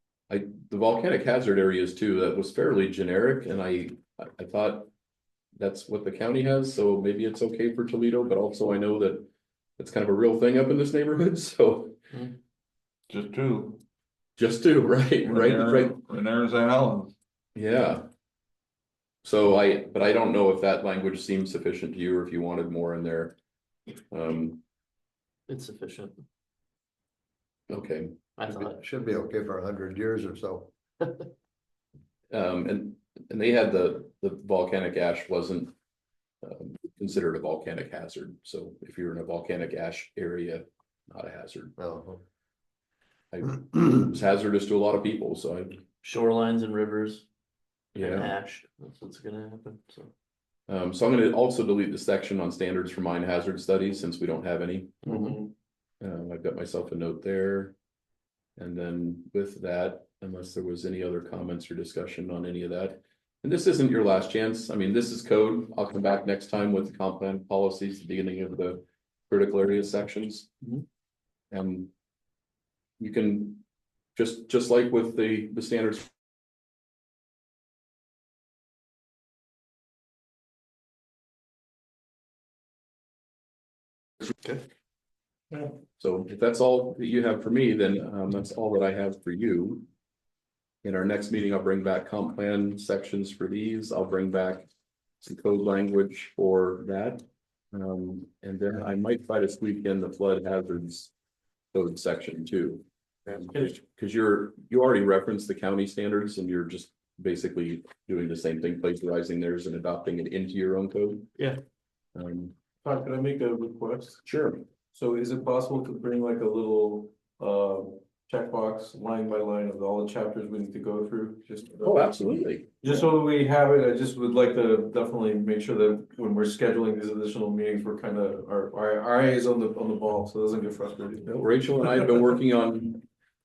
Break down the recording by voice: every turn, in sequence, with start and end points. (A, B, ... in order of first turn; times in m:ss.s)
0:00.3-0:04.9 A
0:05.6-0:12.0 A
0:13.1-0:13.8 B
0:14.4-0:16.0 A
0:15.2-0:17.1 B
0:17.6-0:18.1 A
0:19.2-0:23.3 A
0:24.1-0:24.6 A
0:25.5-0:26.2 C
0:27.7-0:28.2 A
0:28.4-0:28.8 C
0:28.5-0:30.7 D
0:32.3-0:35.7 A
0:36.4-0:41.8 A
0:41.8-0:42.2 D
0:43.3-0:45.8 A
0:46.0-0:47.2 C
0:47.9-0:48.3 A
0:48.0-0:50.1 C
0:50.7-0:55.1 A
0:55.0-0:55.5 E
0:56.0-0:57.7 A
0:58.6-1:10.5 A
1:11.5-1:11.9 A
1:13.0-1:13.6 A
1:14.1-1:16.1 A
1:26.0-1:29.8 A
1:30.8-1:34.7 A
1:35.2-1:41.1 A
1:41.7-1:51.3 A
1:52.1-1:52.5 A
1:52.8-1:54.2 E
1:54.2-1:54.6 A
1:54.9-2:02.2 E
2:01.8-2:03.0 A
2:02.8-2:11.4 E
2:11.3-2:13.0 A